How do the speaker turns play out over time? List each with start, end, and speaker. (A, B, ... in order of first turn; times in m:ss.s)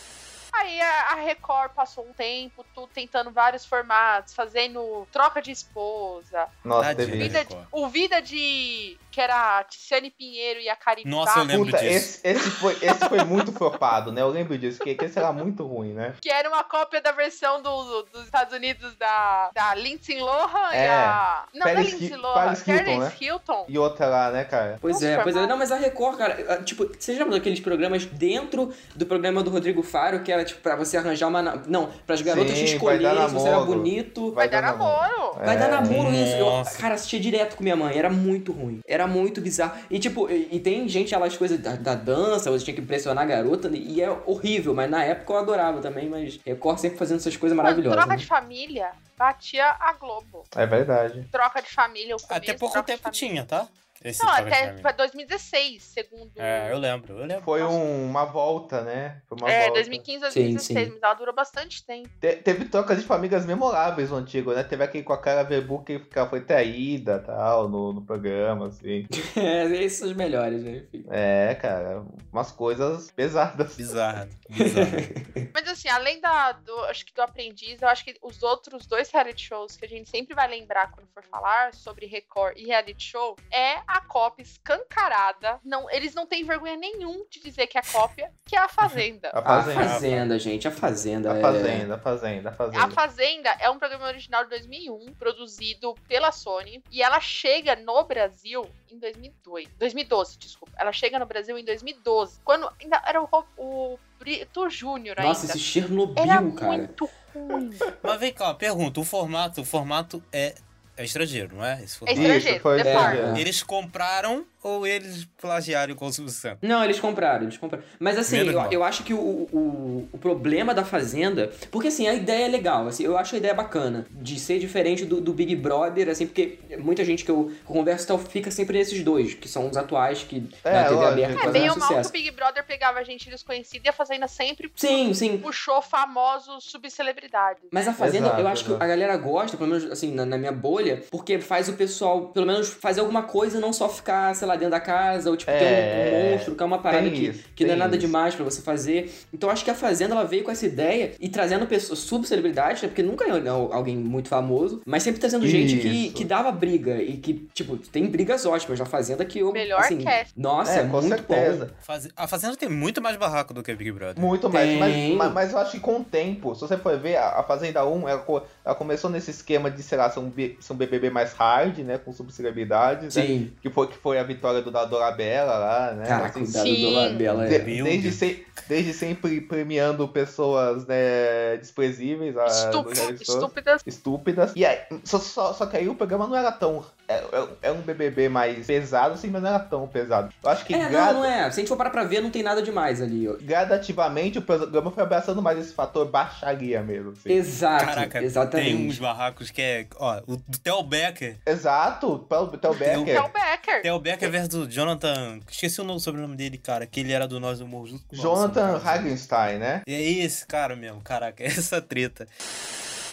0:00.5-0:11.7 A
0:06.6-0:07.4 B
0:06.8-0:07.7 C
0:11.0-0:12.1 C
0:11.5-0:16.2 B
0:12.4-0:13.2 A
0:16.2-0:23.7 A
0:20.7-0:24.8 B
0:24.8-0:34.4 D
0:24.9-0:25.6 A
0:32.2-0:36.0 B
0:34.4-0:35.4 A
0:35.4-0:48.3 D
0:35.9-0:36.8 C
0:47.6-0:50.5 A
0:50.5-0:51.3 B
0:51.3-0:53.3 A
0:52.3-0:54.9 C
0:54.2-0:56.8 A
0:56.4-0:57.7 C
0:57.4-1:00.0 B
0:59.4-1:02.1 A
1:00.3-1:00.9 D
1:02.2-1:09.1 B
1:09.1-1:11.1 D
1:11.1-1:13.8 B
1:13.8-1:15.1 C
1:14.6-1:15.4 D
1:15.6-1:29.4 A
1:29.3-1:30.0 B
1:29.4-1:31.9 D
1:29.7-1:30.3 C
1:31.2-1:33.0 B
1:32.7-1:45.6 A
1:45.2-1:46.9 D
1:46.2-1:47.9 A
1:48.0-1:52.4 C
1:52.1-1:53.2 A
1:52.1-1:53.4 B
1:52.8-1:53.5 D
1:53.3-1:56.6 C
1:56.6-2:12.1 D
1:58.3-1:58.8 C
2:10.6-2:11.8 B
2:11.3-2:18.0 A
2:14.8-2:15.5 D
2:17.7-2:41.7 D
2:18.0-2:18.9 B
2:25.5-2:28.1 B
2:35.4-2:36.3 B
2:39.5-2:40.3 A
2:40.6-2:41.7 B
2:41.8-2:44.3 C
2:44.2-3:11.3 B
2:44.5-2:45.4 D
2:53.1-2:53.5 D
2:56.0-2:57.7 D
2:56.6-2:57.2 A
2:57.4-2:58.2 C
3:02.5-3:03.8 A
3:10.7-3:13.4 D
3:13.4-3:17.4 B
3:17.3-3:19.0 D
3:17.8-3:21.4 C
3:21.5-3:23.3 B
3:22.8-3:23.2 C
3:23.0-3:23.9 A
3:23.8-3:29.1 C
3:28.1-3:29.8 B
3:29.9-3:32.3 C